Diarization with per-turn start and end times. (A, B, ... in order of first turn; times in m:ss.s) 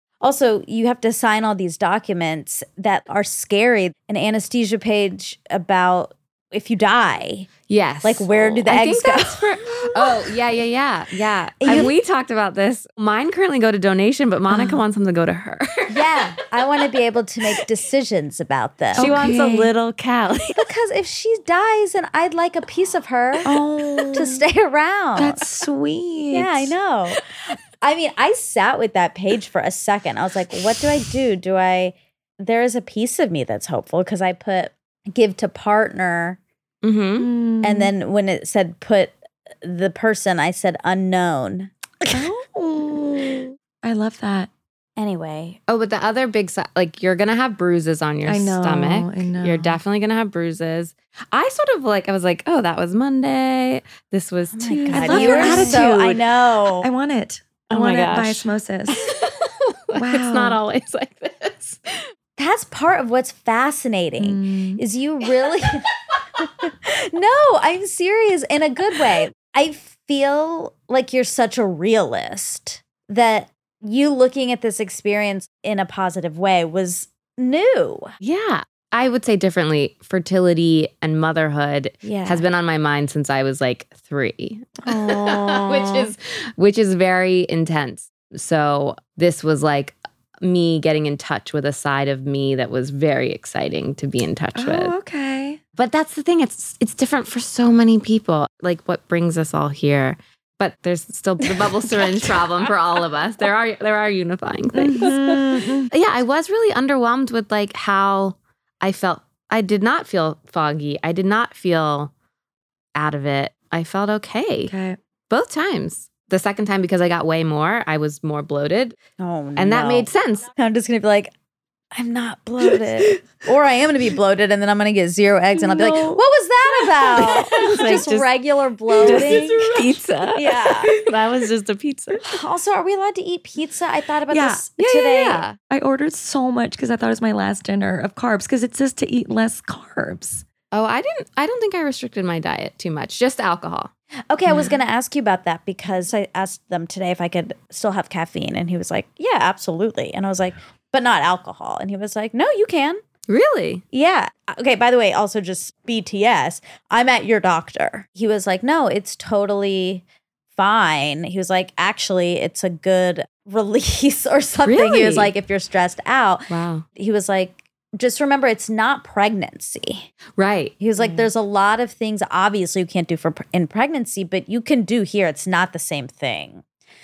0:00.2-0:07.5 A
0:07.7-0:16.1 B
0:08.0-0:09.6 A
0:09.7-0:10.1 C
0:11.6-0:11.9 A
0:14.5-0:14.8 C
0:15.9-0:19.2 A
0:18.9-0:19.7 C
0:19.0-0:20.6 B
0:20.6-0:23.5 A
0:23.4-0:24.4 C
0:24.1-0:25.4 A
0:25.2-0:26.7 C
0:26.3-0:36.4 A
0:36.8-0:37.3 B
0:37.2-0:37.9 C
0:37.6-0:42.3 A
0:42.1-0:44.5 C
0:45.0-0:45.6 A
0:45.7-0:55.8 B
0:48.2-0:49.8 C
0:54.5-0:56.9 A
0:54.9-0:59.1 C
0:57.7-1:02.1 B
0:59.9-1:00.6 C
1:02.4-1:05.8 A
1:04.2-1:04.8 C
1:06.4-1:18.1 A
1:18.2-1:34.9 B
1:22.0-1:22.4 A
1:24.8-1:25.9 C
1:34.6-1:35.6 C
1:35.8-1:45.2 B
1:44.7-1:45.9 C
1:44.9-1:45.6 A
1:45.9-1:52.1 B
1:52.9-1:54.7 B
1:54.7-1:55.0 C
1:55.3-1:59.0 B
1:59.2-2:01.3 A
1:59.6-2:00.5 B
2:01.9-2:09.6 A
2:05.5-2:06.2 C
2:07.0-2:08.0 C
2:07.1-2:08.3 B
2:09.0-2:10.0 C
2:09.0-2:12.2 B
2:10.3-2:10.9 A
2:12.2-2:15.4 A
2:14.3-2:20.4 C
2:14.8-2:15.6 B
2:20.7-2:23.9 B
2:24.3-2:33.0 A
2:24.5-2:24.7 C
2:33.3-2:33.8 B
2:33.9-2:40.0 A
2:40.5-2:50.1 A
2:44.6-2:45.3 B
2:46.5-2:46.8 B
2:50.4-2:50.8 B
2:50.8-2:56.6 A